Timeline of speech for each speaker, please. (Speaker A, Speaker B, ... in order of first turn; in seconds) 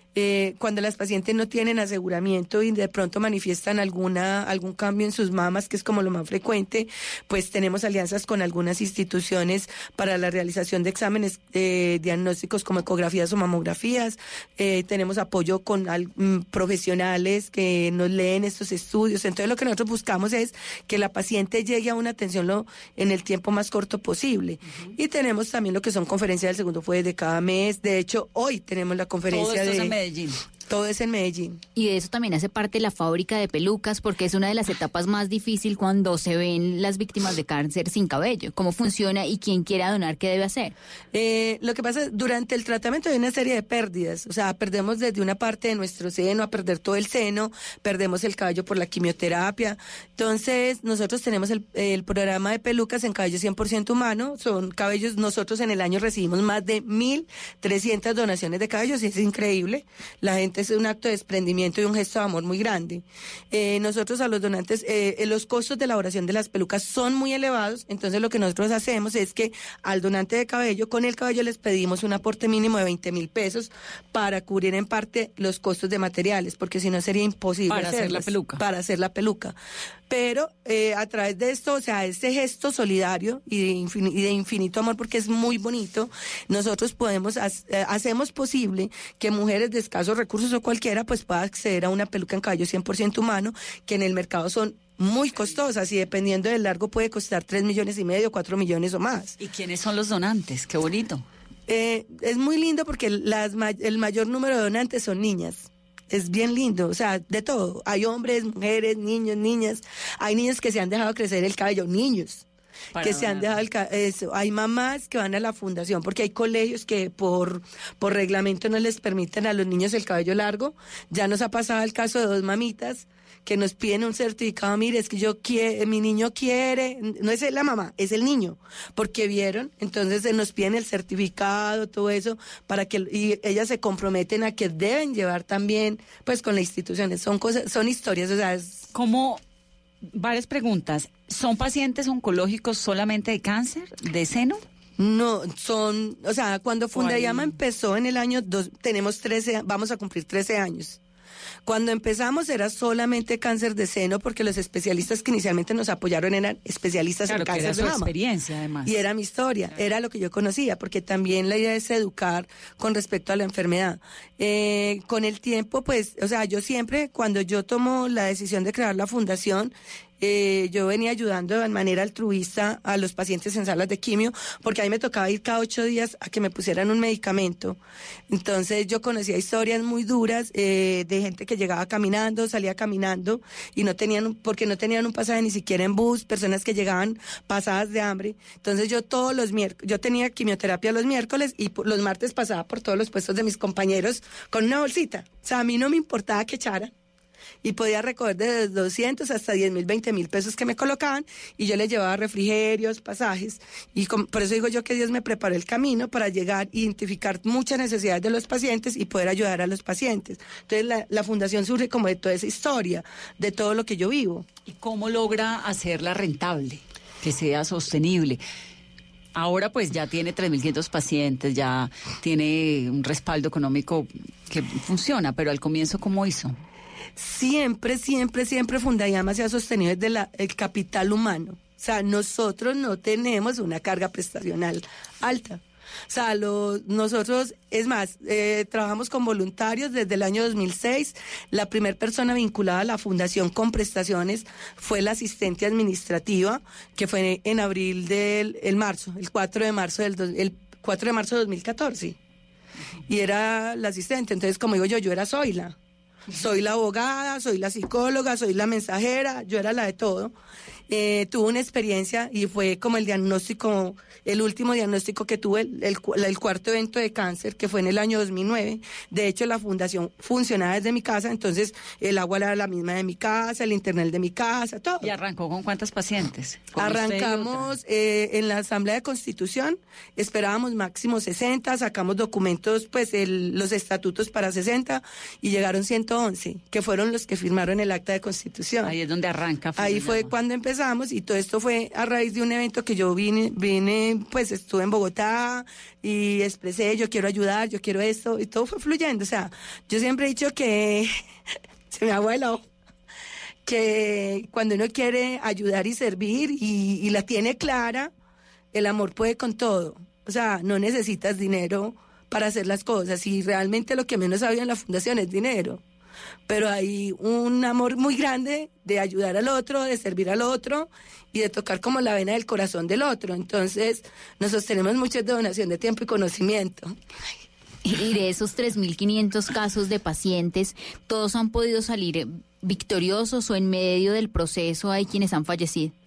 Speaker A: 0.1-29.9, 30.7-31.6, 41.1-79.5, 80.1-99.4, 101.7-112.4, 113.0-138.9, 145.0-151.0, 151.6-158.1, 158.8-177.8, 178.3-196.9, 197.6-214.4, 227.2-252.2, 253.1-255.8, 256.3-260.3, 260.9-275.1, 276.8-288.9, 289.8-301.1, 301.9-302.6, 303.6-308.1, 308.7-315.8, 316.5-326.9
Speaker B: 29.3-30.4, 77.7-78.6, 99.4-101.2, 112.9-113.6, 138.9-139.4, 140.1-144.6, 146.9-147.5, 157.3-159.0, 214.7-218.4, 219.3-226.6, 275.0-277.7, 288.8-290.3
Speaker C: 31.7-40.7, 327.9-335.9